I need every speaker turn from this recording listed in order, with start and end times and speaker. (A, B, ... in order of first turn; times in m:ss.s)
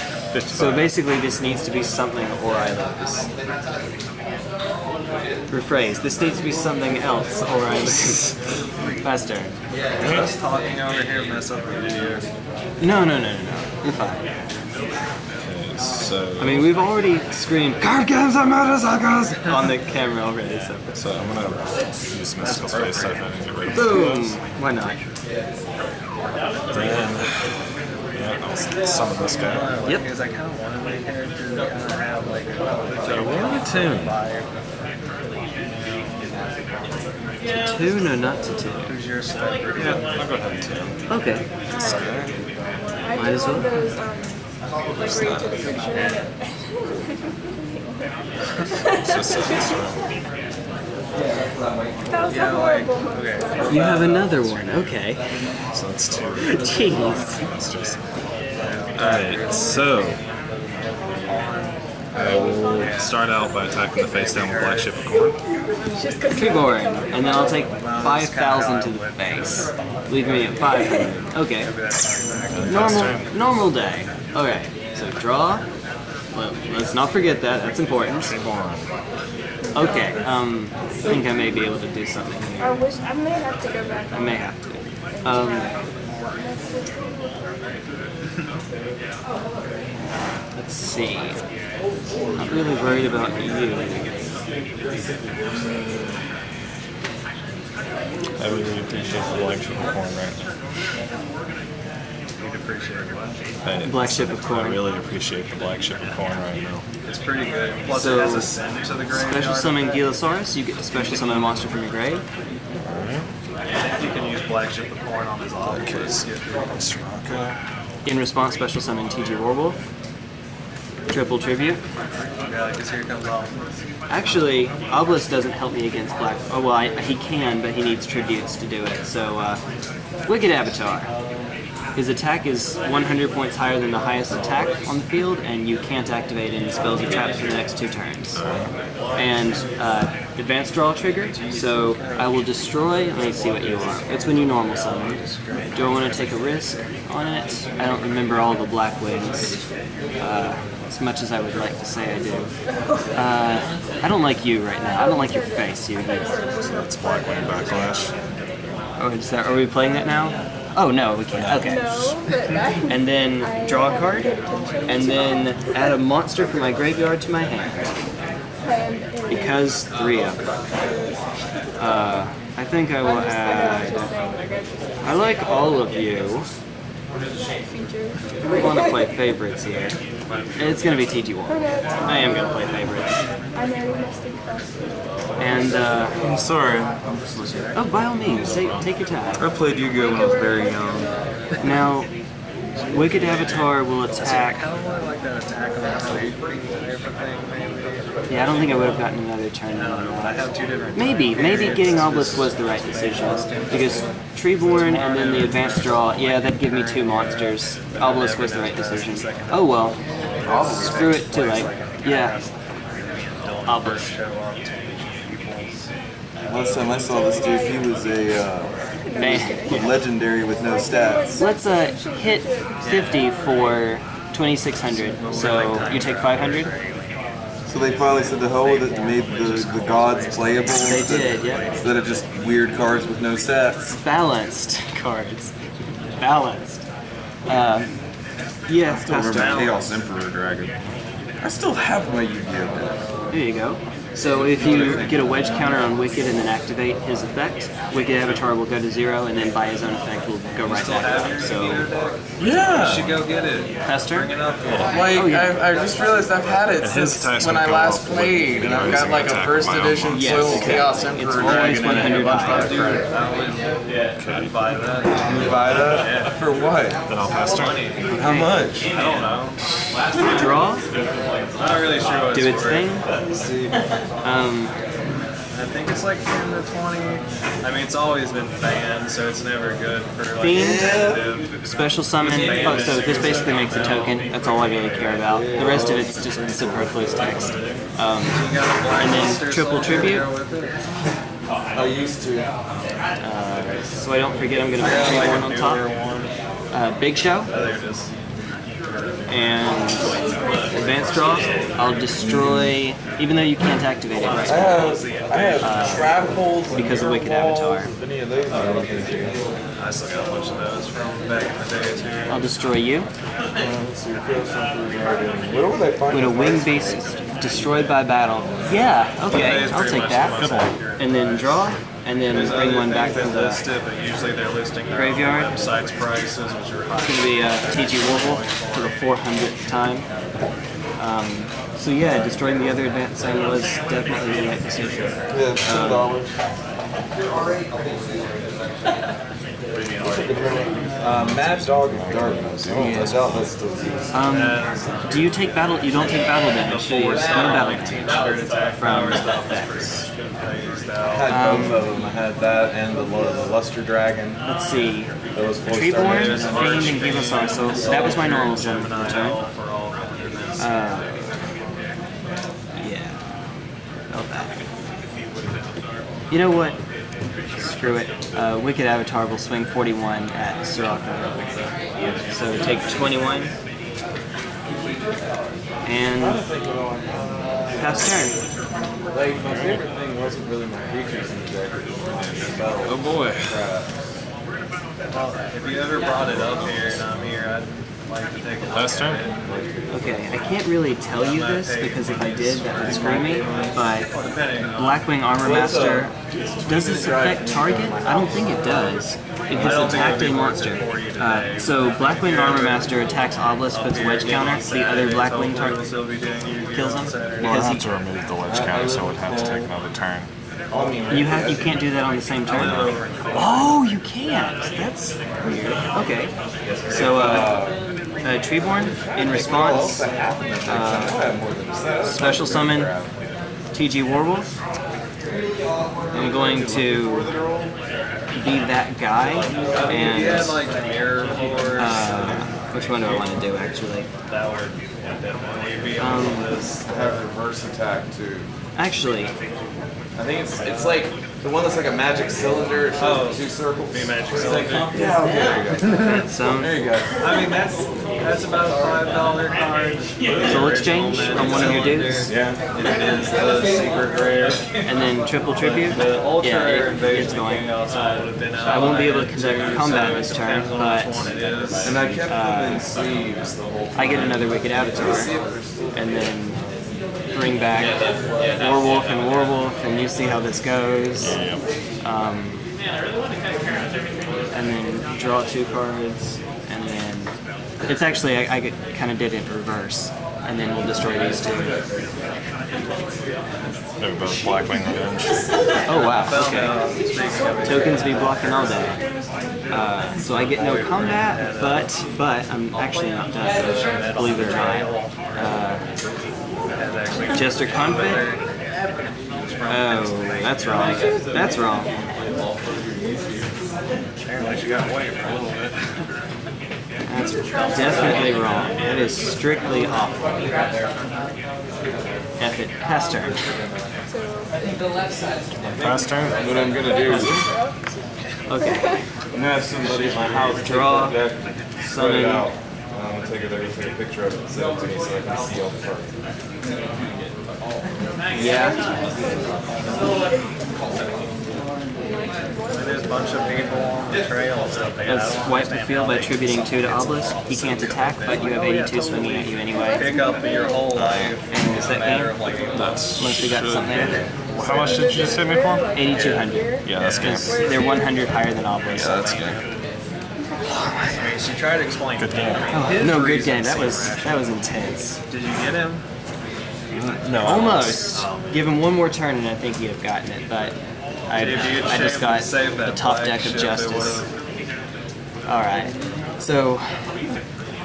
0:00.3-0:01.0 A
0:00.5-0:03.3 B
0:05.5-0:08.3 B
0:07.9-0:08.2 A
0:09.0-0:09.6 B
0:10.0-0:12.3 C
0:10.0-0:10.3 A
0:12.8-0:14.2 B
0:15.3-0:16.7 A
0:16.4-0:21.0 B
0:21.0-0:24.4 A
0:22.4-0:23.3 C
0:23.7-0:25.0 B
0:26.7-0:29.7 A
0:29.4-0:34.5 C
0:33.0-0:34.2 A
0:37.4-0:38.9 B
0:38.8-0:40.3 C
0:39.8-0:41.1 A
0:41.1-0:41.5 B
0:41.7-0:42.3 D
0:41.7-0:42.3 A
0:42.9-0:50.2 D
0:43.1-0:43.7 B
0:45.0-0:45.8 A
0:45.9-0:46.2 C
0:49.0-0:50.2 A
0:52.1-0:54.2 D
0:52.3-0:54.5 C
0:53.7-0:55.7 B
0:55.7-0:58.0 A
0:56.4-0:57.4 B
0:58.6-0:59.9 C
0:58.9-1:00.2 A
1:01.2-1:01.8 C
1:02.1-1:07.8 D
1:02.1-1:05.4 A
1:02.7-1:03.2 C
1:04.2-1:04.9 C
1:06.3-1:11.7 B
1:07.7-1:10.5 C
1:10.7-1:11.1 D
1:11.6-1:13.2 C
1:12.5-1:13.3 A
1:12.7-1:15.6 B
1:16.3-1:18.4 B
1:18.2-1:18.9 A
1:19.6-1:20.3 D
1:19.7-1:22.9 B
1:22.6-1:24.5 D
1:24.1-1:25.7 B
1:25.1-1:27.4 D
1:30.5-1:31.4 B
1:32.4-1:34.1 B
1:38.4-1:40.5 A
1:42.4-1:43.4 C
1:43.6-1:46.8 A
1:43.8-1:44.8 B
1:47.0-1:49.8 C
1:47.9-1:48.6 B
1:49.1-1:52.2 B
1:52.8-1:53.3 A
1:53.7-1:56.8 C
1:55.6-1:57.6 A
1:58.0-1:59.8 B
2:01.1-2:01.8 B
2:02.2-2:03.8 C
2:04.1-2:09.6 B
2:10.3-2:11.1 B
2:12.0-2:18.4 B
2:17.0-2:17.3 C
2:18.3-2:18.7 A
2:19.2-2:29.6 B
2:21.3-2:26.5 C
2:30.2-2:32.5 B
2:32.9-2:33.4 D
2:33.1-2:36.4 B
2:34.8-2:38.8 D
2:36.6-2:38.1 A
2:39.0-2:42.2 B
2:40.0-2:40.3 D
2:41.3-2:41.6 A
2:41.6-2:46.0 D
2:42.9-2:47.9 B
2:48.6-2:49.8 D
2:49.3-2:50.4 B
2:50.7-2:51.2 D
2:51.8-2:54.1 B
2:51.8-2:52.1 D
2:53.0-2:55.5 D
2:55.0-2:56.5 B
2:57.6-2:59.1 D
2:58.4-3:00.0 B
3:00.6-3:03.1 B
3:01.5-3:02.9 D
3:03.5-3:06.2 D
3:05.4-3:06.2 B
3:06.2-3:08.7 E
3:07.7-3:09.4 B
3:08.4-3:08.9 A
3:09.4-3:11.2 E
3:09.9-3:11.8 D
3:11.6-3:12.1 B
3:12.8-3:19.0 C
3:12.9-3:14.7 B
3:18.3-3:30.0 B
3:19.7-3:24.1 C
3:21.4-3:22.4 E
3:24.6-3:35.9 C
3:30.4-3:31.2 E
3:30.6-3:32.4 B
3:33.7-3:34.1 B
3:36.5-3:41.4 E
3:36.9-3:43.9 D
3:39.1-3:40.0 B
3:41.3-3:46.7 B
3:44.8-3:47.0 C
3:47.7-3:53.9 E
3:48.0-3:52.1 C
3:50.8-3:51.6 B
3:53.8-3:55.5 B
3:56.2-3:56.8 B
3:57.5-3:58.0 B
3:58.7-3:59.8 B
3:58.9-4:00.7 E
3:59.2-4:00.0 C
4:01.4-4:03.0 E
4:03.3-4:11.9 B
4:04.3-4:05.4 C
4:04.6-4:05.6 E
4:10.6-4:15.1 C
4:12.4-4:13.3 A
4:13.8-4:14.3 B
4:14.7-4:14.9 A
4:14.9-4:23.1 E
4:15.1-4:15.5 B
4:16.8-4:20.8 A
4:20.1-4:23.0 B
4:21.3-4:26.4 C
4:24.2-4:24.6 A
4:25.2-4:27.0 E
4:27.1-4:27.8 A
4:27.4-4:28.2 C
4:28.1-4:28.9 E
4:28.2-4:28.5 B
4:28.8-4:29.6 C
4:30.2-4:30.9 B
4:31.6-4:33.0 C
4:32.3-4:33.0 B
4:33.1-4:33.8 E
4:34.2-4:34.7 B
4:35.5-4:41.6 C
4:40.4-4:41.0 B
4:40.5-4:41.2 E
4:41.6-4:50.3 B
4:42.2-4:45.1 C
4:45.2-4:47.6 E
4:48.2-4:50.8 C
4:51.7-4:52.5 E
4:53.2-4:55.9 B
4:54.8-4:56.3 C
4:56.7-4:57.5 B
4:57.5-4:58.1 C
4:59.3-5:00.1 E
4:59.3-5:00.2 B
5:00.7-5:04.9 B
5:02.2-5:02.7 E
5:04.3-5:06.4 C
5:04.4-5:09.4 E
5:05.6-5:06.2 B
5:06.7-5:07.9 B
5:08.5-5:08.9 C
5:09.8-5:12.6 C
5:12.3-5:13.1 B
5:13.6-5:18.8 E
5:16.1-5:20.5 B
5:19.2-5:21.7 C
5:20.2-5:20.8 A
5:21.0-5:23.6 B
5:22.3-5:28.9 C
5:24.9-5:25.5 B
5:27.0-5:30.1 B
5:31.0-5:36.2 B
5:35.3-5:36.4 E
5:40.0-5:44.1 E
5:41.1-5:43.5 A
5:42.8-5:43.1 B
5:44.1-5:48.2 B
5:44.2-5:45.3 C
5:45.8-5:51.3 C
5:48.8-5:49.7 B
5:51.0-5:54.4 E
5:51.3-5:51.8 B
5:54.4-5:59.4 B
5:55.3-5:56.8 E
5:56.0-6:01.2 C
6:00.6-6:01.2 B
6:02.8-6:03.2 B
6:04.1-6:04.6 B
6:06.3-6:06.8 B
6:07.6-6:11.6 B
6:12.3-6:13.5 B
6:15.8-6:16.4 B
6:16.2-6:18.3 E
6:17.8-6:18.4 B
6:19.1-6:23.9 E
6:19.3-6:19.8 A
6:22.8-6:23.6 A
6:25.1-6:29.4 C
6:26.2-6:27.5 A
6:28.7-6:29.2 A
6:29.4-6:30.6 E
6:29.9-6:45.8 B
6:31.2-6:35.0 C
6:32.6-6:33.8 E
6:35.4-6:40.2 E
6:39.5-6:43.1 C
6:43.7-6:47.6 C
6:46.7-6:47.8 B
6:47.4-6:50.3 A
6:48.4-6:49.7 E
6:50.7-6:51.8 E
6:51.1-6:56.3 B
6:52.5-6:53.9 C
6:52.5-6:53.0 A
6:56.6-6:57.8 E
6:56.9-6:57.6 B
6:58.2-7:00.1 B
6:58.9-7:03.1 E
7:00.6-7:01.2 B
7:02.0-7:02.9 B
7:03.7-7:04.5 B
7:06.0-7:07.8 E
7:06.1-7:07.3 B
7:08.3-7:10.6 B
7:09.5-7:13.4 C
7:09.5-7:10.5 E
7:11.8-7:14.1 B
7:14.3-7:16.8 C
7:16.0-7:16.5 B
7:16.8-7:18.5 E
7:18.8-7:19.3 B
7:20.2-7:27.7 E
7:23.0-7:26.2 C
7:26.0-7:26.8 B
7:27.1-7:35.0 C
7:28.3-7:29.3 E
7:30.4-7:32.3 B
7:31.5-7:34.5 E
7:34.8-7:37.7 B
7:35.6-7:42.1 C
7:38.6-7:41.3 B
7:41.8-7:42.2 A
7:41.8-7:46.4 E
7:42.2-7:42.9 B
7:42.9-7:43.4 A
7:44.0-7:45.3 B
7:45.9-7:46.6 B
7:47.3-7:48.0 B
7:48.6-7:51.4 B
7:51.2-7:51.6 A
7:52.0-7:52.6 B
7:54.5-7:57.3 B
7:57.9-8:01.8 B
8:01.0-8:02.1 E
8:04.0-8:05.4 A
8:05.9-8:06.8 B
8:06.0-8:08.9 C
8:07.6-8:09.0 B
8:09.7-8:15.8 B
8:10.3-8:12.0 C
8:12.9-8:15.7 C
8:16.7-8:18.4 C
8:17.3-8:18.3 B
8:19.3-8:21.8 C
8:19.7-8:21.9 B
8:20.7-8:22.1 D
8:24.3-8:26.0 C
8:27.1-8:30.6 B
8:27.1-8:29.0 D
8:32.4-8:33.5 B
8:33.3-8:33.9 E
8:34.1-8:34.6 D
8:35.7-8:37.5 E
8:35.8-8:36.4 A
8:36.4-8:39.1 D
8:37.1-8:37.4 B
8:38.5-8:39.1 B
8:39.3-8:46.1 E
8:39.8-8:40.3 C
8:40.0-8:41.2 B
8:41.9-8:42.5 B
8:48.3-8:48.9 B
8:48.4-8:50.2 D
8:52.0-8:54.0 D
8:52.7-9:02.9 C
8:55.1-9:00.0 B
8:59.7-9:01.0 D
9:00.9-9:01.4 A
9:01.5-9:02.4 B
9:02.7-9:07.6 A
9:03.2-9:04.3 B
9:04.5-9:08.4 D
9:05.9-9:09.4 B
9:06.9-9:07.4 C
9:08.9-9:09.6 A
9:10.4-9:10.9 D
9:10.6-9:11.2 B
9:11.1-9:14.6 C
9:12.2-9:12.7 A
9:12.7-9:15.2 B
9:15.3-9:16.0 C
9:16.9-9:18.0 A
9:17.4-9:24.3 B
9:18.1-9:18.5 C
9:21.4-9:24.3 C
9:25.4-9:27.2 B